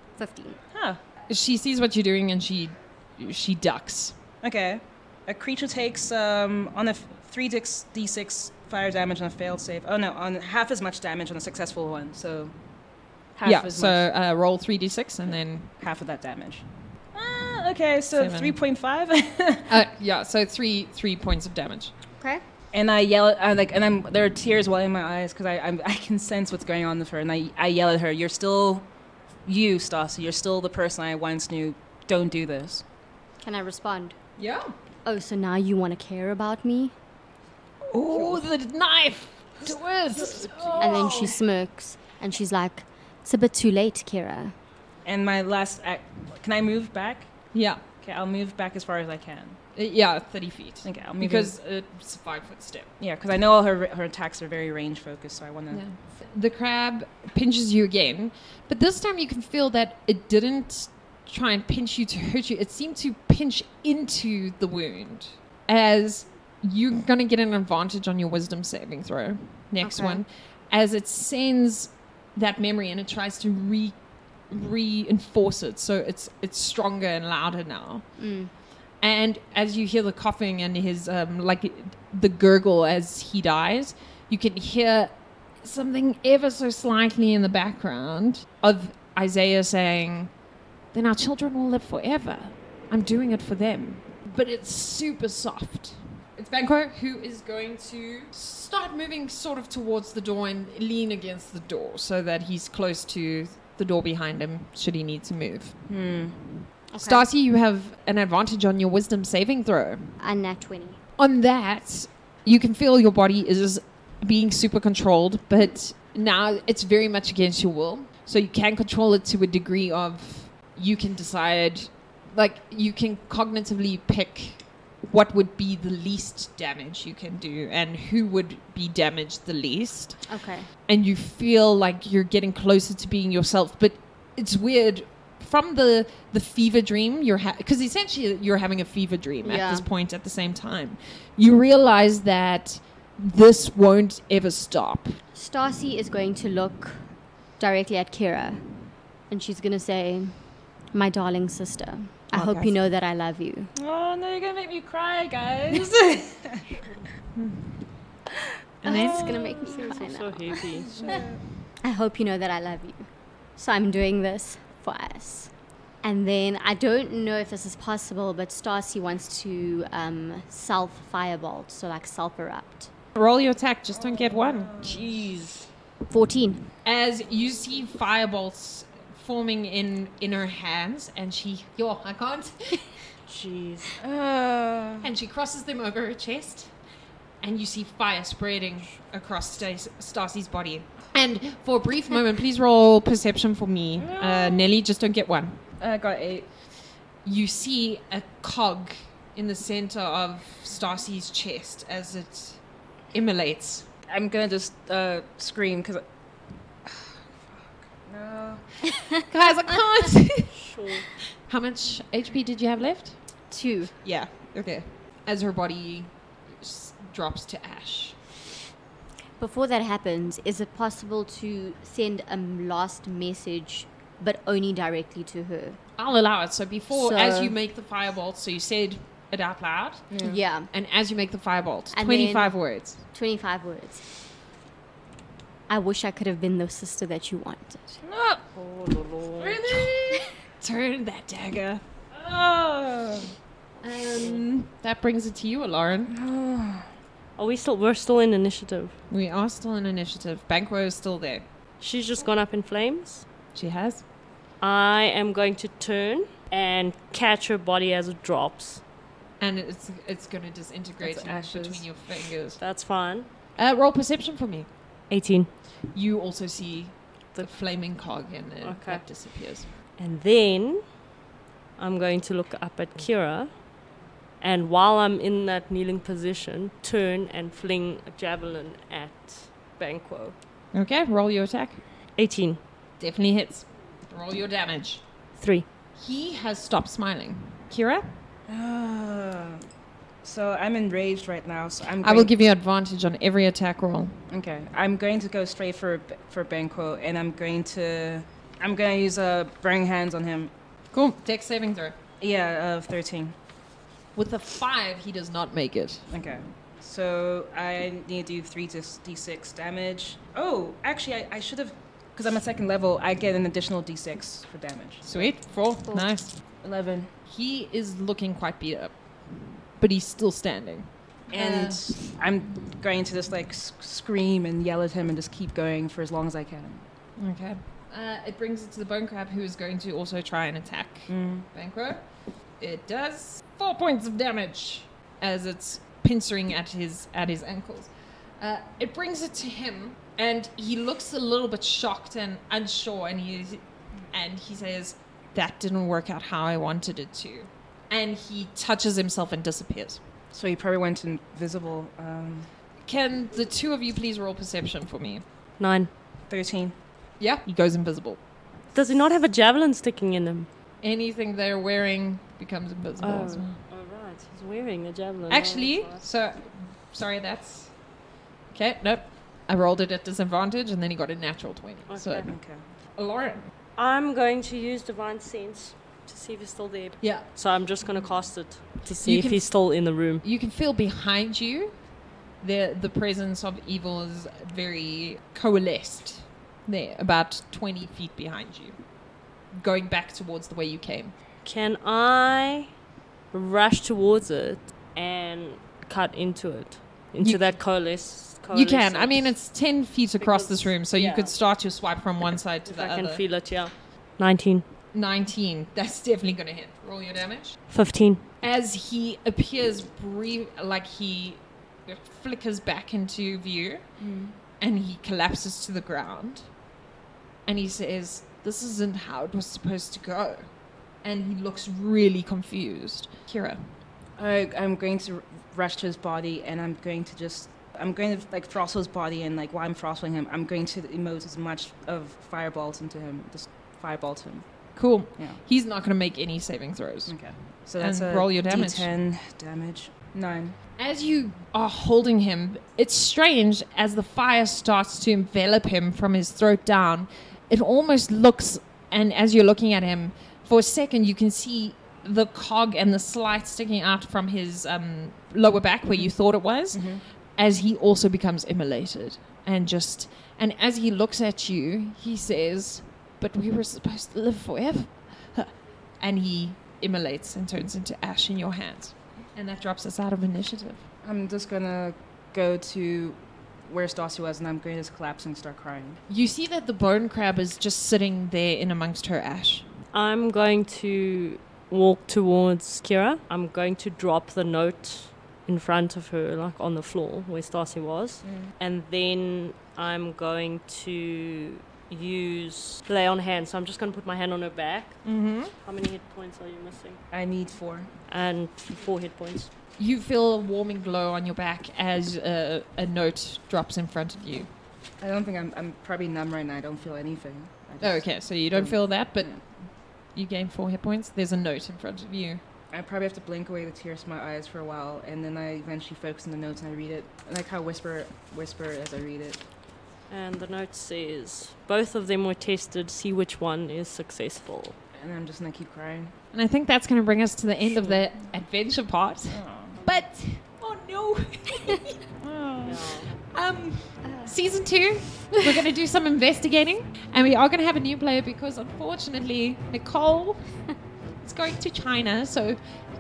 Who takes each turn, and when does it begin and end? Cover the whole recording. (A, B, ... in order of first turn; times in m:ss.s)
0:00.2-0:00.6 A
0:00.7-0:01.0 B
0:01.3-0:04.2 C
0:04.4-0:12.6 B
0:13.3-0:14.1 B
0:13.4-0:15.8 C
0:15.8-0:19.7 B
0:18.1-0:18.6 C
0:19.7-0:21.9 C
0:22.2-0:22.4 A
0:22.7-0:28.9 B
0:29.4-0:32.8 B
0:33.4-0:34.2 A
0:34.4-0:34.7 C
0:35.0-0:37.0 A
0:37.8-0:41.4 C
0:38.1-0:38.4 B
0:40.1-0:41.0 B
0:40.8-0:44.6 A
0:45.0-0:49.6 B
0:47.5-0:47.8 C
0:49.7-0:52.9 C
0:50.8-0:51.5 B
0:53.0-0:55.9 B
0:55.7-1:18.3 C
1:09.8-1:10.2 A
1:18.2-1:18.5 A
1:19.0-1:30.4 C
1:30.9-1:45.8 C
1:45.9-1:46.5 B
1:46.9-1:47.2 A
1:47.0-1:50.2 C
1:50.2-1:51.0 A
1:51.2-2:25.2 C
2:10.3-2:10.7 A
2:19.4-2:19.9 A
2:25.3-2:33.7 A
2:32.3-2:32.8 C
2:33.8-2:36.6 B
2:37.3-2:37.9 C
2:38.8-2:39.3 C
2:38.8-2:41.2 A
2:38.9-2:39.9 B
2:39.5-2:40.9 D
2:40.8-2:41.4 B
2:41.8-2:52.9 A
2:53.1-2:54.8 C
2:53.9-2:54.9 B
2:54.8-2:55.7 D
2:56.1-2:56.7 A
2:56.8-3:03.0 C
3:03.3-3:03.9 D
3:04.0-3:05.1 B
3:05.0-3:06.7 C
3:07.4-3:15.6 C
3:14.0-3:14.7 B
3:15.8-3:16.5 B
3:17.2-3:23.9 C
3:24.1-3:26.0 B
3:26.8-3:28.9 B
3:29.3-3:30.6 C
3:30.5-3:31.1 D
3:31.2-3:33.4 C
3:33.5-3:33.9 A
3:34.0-3:38.3 C
3:39.4-3:45.8 A
3:46.0-3:53.0 C
3:46.9-3:47.6 A
3:50.1-3:50.4 B
3:50.2-3:50.7 A
3:51.9-3:54.0 A
3:55.7-3:58.0 A
3:58.0-3:58.4 B
3:58.5-3:59.6 D
3:59.4-4:01.8 C
4:02.1-4:03.3 B
4:03.8-4:06.1 C
4:04.1-4:04.4 D
4:06.1-4:06.9 B
4:07.4-4:09.0 D
4:09.1-4:11.5 C
4:11.8-4:13.2 D
4:13.5-4:14.0 C
4:14.6-4:18.8 D
4:19.4-4:22.6 C
4:21.0-4:22.1 B
4:22.6-4:23.3 D
4:23.6-4:24.7 C
4:25.1-4:25.5 D
4:25.8-4:29.7 C
4:28.6-4:29.2 D
4:29.9-4:30.9 D
4:31.8-4:33.6 D
4:34.4-4:40.4 D
4:40.7-4:41.8 C
4:42.1-4:42.6 D
4:43.0-4:45.1 C
4:45.3-4:45.7 D
4:45.9-4:48.3 C
4:48.5-4:49.6 B
4:50.2-4:52.4 B
4:52.0-4:54.2 C
4:54.3-5:00.5 B
5:00.9-5:02.0 C
5:02.2-5:03.3 B
5:04.1-5:06.0 C
5:06.1-5:15.4 B
5:15.0-5:16.4 C
5:15.8-5:16.1 A
5:16.6-5:17.1 B
5:17.2-5:22.1 C
5:21.3-5:26.8 B
5:27.2-5:50.0 C
5:31.1-5:31.5 B
5:50.3-5:52.5 B
5:52.8-5:55.2 C
5:55.6-5:55.9 D
5:56.3-5:56.8 B
5:57.2-5:58.2 C
5:58.7-6:00.5 D
6:00.8-6:03.6 C
6:03.0-6:06.0 D
6:05.3-6:12.3 C
6:11.9-6:12.3 D
6:12.2-6:12.7 B
6:13.0-6:13.4 C
6:13.7-6:20.2 D
6:17.0-6:17.5 C
6:18.8-6:31.2 C
6:31.4-6:32.7 D
6:33.3-6:39.4 D
6:37.2-6:37.6 C
6:38.5-6:43.2 C
6:40.2-6:41.4 D
6:42.6-6:44.7 D
6:44.9-6:47.6 C
6:47.7-6:48.3 D
6:48.4-6:56.6 C
6:54.0-6:54.4 B
6:57.4-7:03.8 C
7:04.2-7:15.4 B
7:14.7-7:18.9 C
7:17.0-7:20.6 B
7:20.8-7:50.9 C
7:36.7-7:37.0 B
7:51.0-7:56.0 B
7:56.1-7:59.7 C
7:59.9-8:17.0 D
8:08.2-8:08.5 B
8:15.0-8:15.5 C
8:17.1-8:17.9 B
8:18.1-8:19.5 D
8:19.8-8:24.5 C
8:25.0-8:29.6 B
8:27.8-8:32.4 C
8:32.7-8:39.4 B
8:40.1-8:44.8 D
8:44.9-8:46.1 B
8:46.3-9:02.6 C
8:47.7-8:48.0 D
8:49.3-8:49.8 B
8:52.6-8:53.1 D
8:54.0-8:54.5 A